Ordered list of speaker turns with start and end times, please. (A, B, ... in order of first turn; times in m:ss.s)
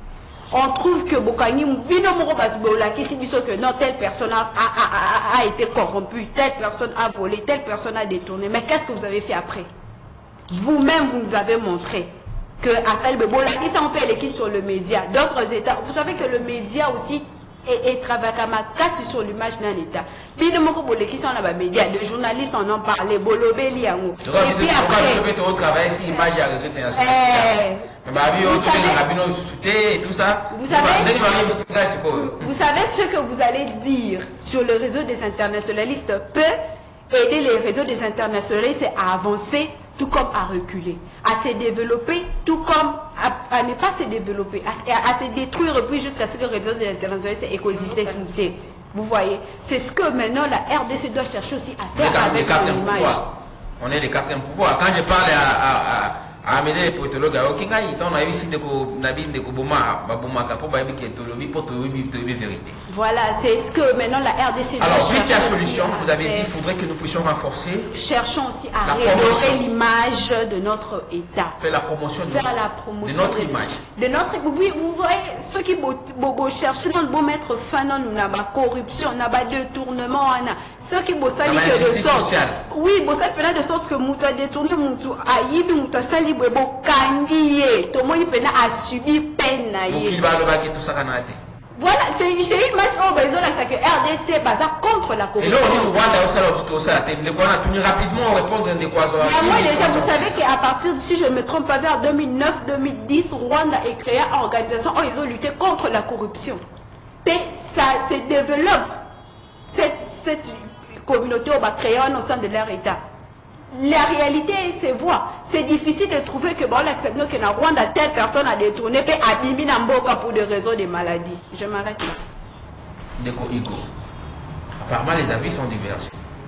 0:00.5-0:09.7 A
0:10.5-0:25.2 A
0:24.2-0:32.5 B
0:27.0-0:29.0 A
0:30.5-0:31.1 A
0:32.2-0:36.6 A
0:37.1-0:53.2 A
0:52.0-1:02.8 B
1:02.9-1:06.5 A
1:04.8-1:07.9 B
1:07.9-1:11.6 A
1:08.8-1:09.6 B
1:11.6-1:13.8 B
1:12.3-1:30.2 A
1:21.4-1:22.6 B
1:29.9-1:31.4 B
1:31.8-1:36.0 A
1:35.4-1:40.4 B
1:39.2-1:46.6 A
1:47.2-1:49.0 A
1:49.7-1:53.0 A
1:53.7-2:02.2 A
2:03.2-2:03.9 B
2:04.8-2:06.2 B